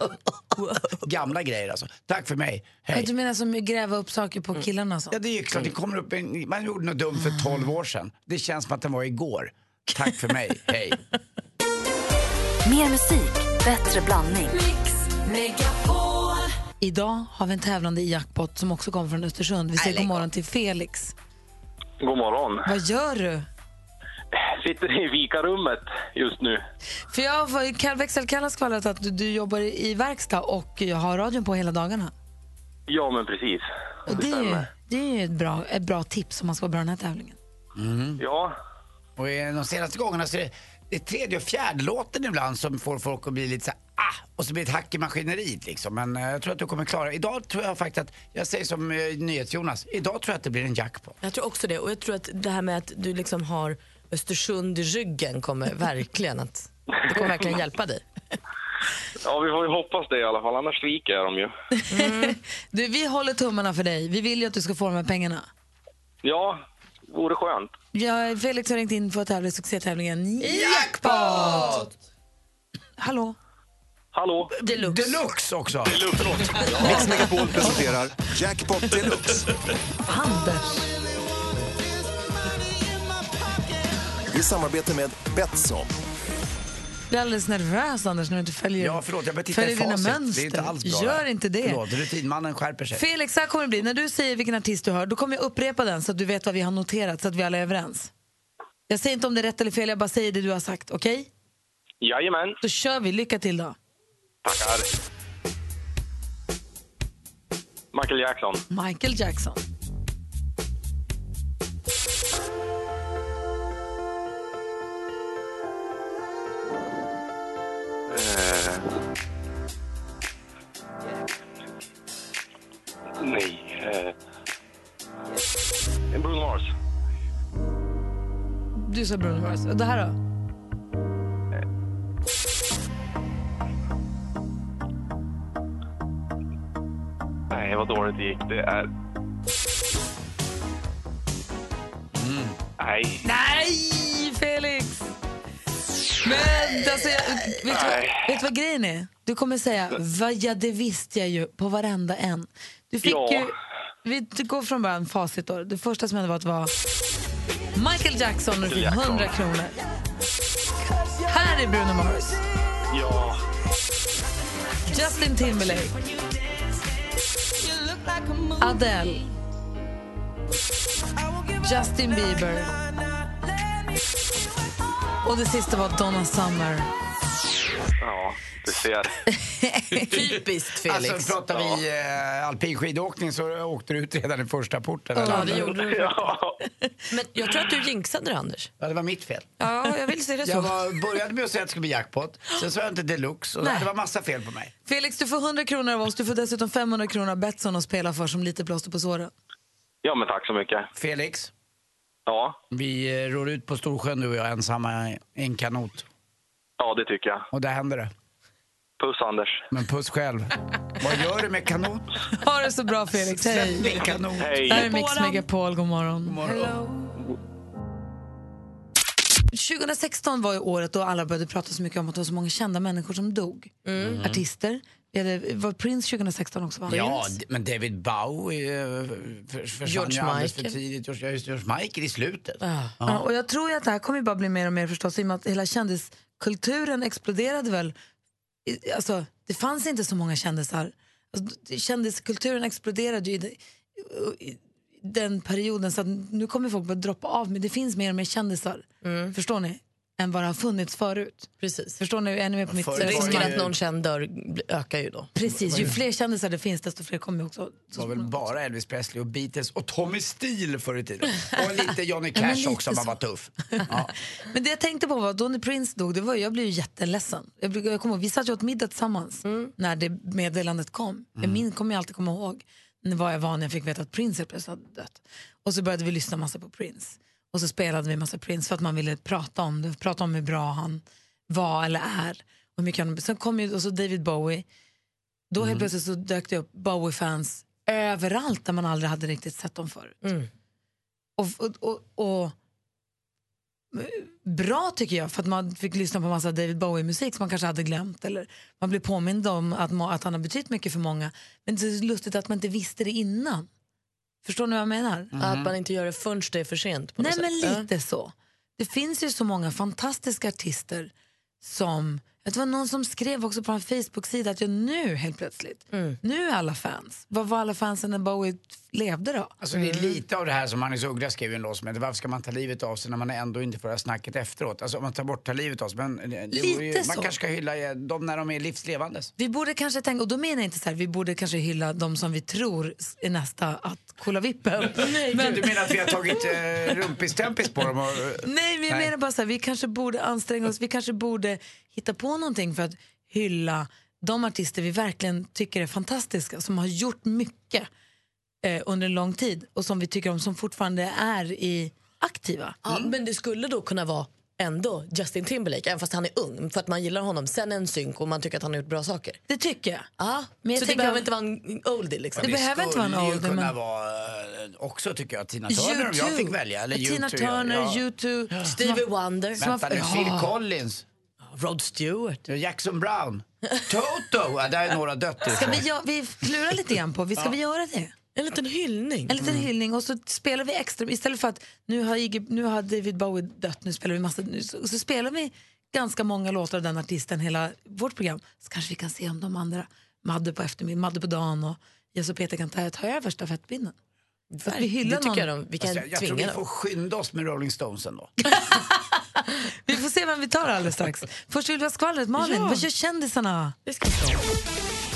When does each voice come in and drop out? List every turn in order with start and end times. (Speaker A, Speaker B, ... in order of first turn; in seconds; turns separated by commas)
Speaker A: 0.6-1.0, Speaker B: 1.0-3.1, Speaker C: 2.9-5.2, Speaker B: 5.1-11.0, Speaker D: 12.6-14.6, Speaker C: 16.8-21.1, Speaker E: 22.0-22.7, Speaker C: 22.6-23.5, Speaker E: 24.4-26.6, Speaker C: 27.1-32.1, Speaker E: 32.9-34.7, Speaker C: 34.1-37.4, Speaker B: 37.8-38.2, Speaker E: 38.2-38.5, Speaker B: 39.2-51.2, Speaker A: 51.2-58.0, Speaker E: 59.2-61.5, Speaker C: 61.9-65.5, Speaker A: 61.9-62.4, Speaker E: 66.2-67.7, Speaker C: 67.9-71.9, Speaker C: 73.0-73.4, Speaker E: 74.1-74.5, Speaker B: 74.7-76.1, Speaker A: 74.8-75.0, Speaker E: 75.8-77.1, Speaker F: 76.8-79.5, Speaker C: 80.1-80.9, Speaker F: 84.3-85.9, Speaker C: 87.1-91.8, Speaker B: 88.8-93.0, Speaker C: 92.9-98.1, Speaker C: 98.9-101.3, Speaker E: 102.0-102.6, Speaker C: 102.6-103.8, Speaker E: 104.4-104.9, Speaker E: 107.9-108.6, Speaker C: 108.7-109.6, Speaker E: 118.1-118.8, Speaker E: 123.2-124.1, Speaker E: 126.1-126.7, Speaker C: 128.8-130.2, Speaker E: 137.5-138.9, Speaker B: 142.1-142.6, Speaker E: 142.8-143.2, Speaker C: 143.2-145.1, Speaker C: 146.2-153.5, Speaker E: 147.7-148.3, Speaker E: 153.0-153.5, Speaker C: 154.0-156.7, Speaker C: 157.8-159.8, Speaker E: 158.7-159.3, Speaker C: 161.3-162.4, Speaker E: 162.9-163.4, Speaker C: 164.9-166.0, Speaker C: 168.6-169.2, Speaker C: 171.6-172.7, Speaker C: 175.2-176.9, Speaker E: 178.0-179.1, Speaker C: 179.3-180.2, Speaker A: 180.0-181.4, Speaker B: 180.9-185.7, Speaker C: 185.2-186.1, Speaker A: 185.3-186.1, Speaker E: 185.7-186.6, Speaker A: 187.1-188.7, Speaker B: 188.8-189.5, Speaker C: 189.6-190.7, Speaker B: 190.4-194.7, Speaker C: 194.9-199.3, Speaker E: 200.0-200.9, Speaker B: 200.9-201.5, Speaker E: 202.3-202.6, Speaker B: 202.7-206.1, Speaker E: 206.8-207.5, Speaker B: 207.5-208.1, Speaker E: 209.0-209.6, Speaker B: 209.7-212.1, Speaker C: 212.4-214.1, Speaker B: 213.2-214.9, Speaker E: 214.4-214.8, Speaker C: 214.7-216.8, Speaker B: 216.2-216.8, Speaker C: 219.5-227.3, Speaker A: 223.9-224.2, Speaker B: 224.0-224.4, Speaker B: 226.9-233.2, Speaker A: 229.8-230.8, Speaker A: 232.6-233.0, Speaker C: 233.1-237.9, Speaker C: 238.7-253.6, Speaker A: 249.0-249.3, Speaker A: 251.6-252.0, Speaker B: 252.7-253.8, Speaker A: 253.0-255.8, Speaker C: 255.3-258.3, Speaker B: 255.5-256.0, Speaker B: 258.0-264.1, Speaker C: 262.4-263.1, Speaker C: 264.5-284.6, Speaker A: 269.4-269.7, Speaker B: 271.4-271.6, Speaker C: 285.5-290.2, Speaker B: 285.6-285.9, Speaker C: 291.4-292.6, Speaker C: 293.9-303.7, Speaker C: 304.4-305.3, Speaker B: 305.3-305.7, Speaker A: 305.4-307.9, Speaker C: 307.2-311.1, Speaker C: 311.6-319.5, Speaker A: 315.9-316.2, Speaker B: 319.6-329.3, Speaker A: 319.8-320.1, Speaker C: 326.5-327.3, Speaker C: 329.4-335.6, Speaker A: 335.0-335.7, Speaker B: 335.3-339.1, Speaker C: 338.4-347.9, Speaker C: 348.6-352.8, Speaker A: 352.9-359.4, Speaker B: 352.9-353.1, Speaker C: 359.5-360.1, Speaker A: 360.2-362.5, Speaker C: 360.6-361.2, Speaker B: 362.4-368.0, Speaker C: 362.4-363.7, Speaker C: 365.7-369.0, Speaker A: 368.6-369.6, Speaker B: 369.6-371.1, Speaker C: 369.6-370.5, Speaker A: 371.4-372.4, Speaker B: 372.5-375.8, Speaker C: 375.5-378.1, Speaker A: 378.4-379.4, Speaker C: 379.3-393.9, Speaker B: 379.4-379.7, Speaker A: 394.5-396.6, Speaker C: 394.7-395.5, Speaker B: 395.8-398.3, Speaker C: 399.9-403.8, Speaker A: 402.4-402.9, Speaker A: 403.9-404.5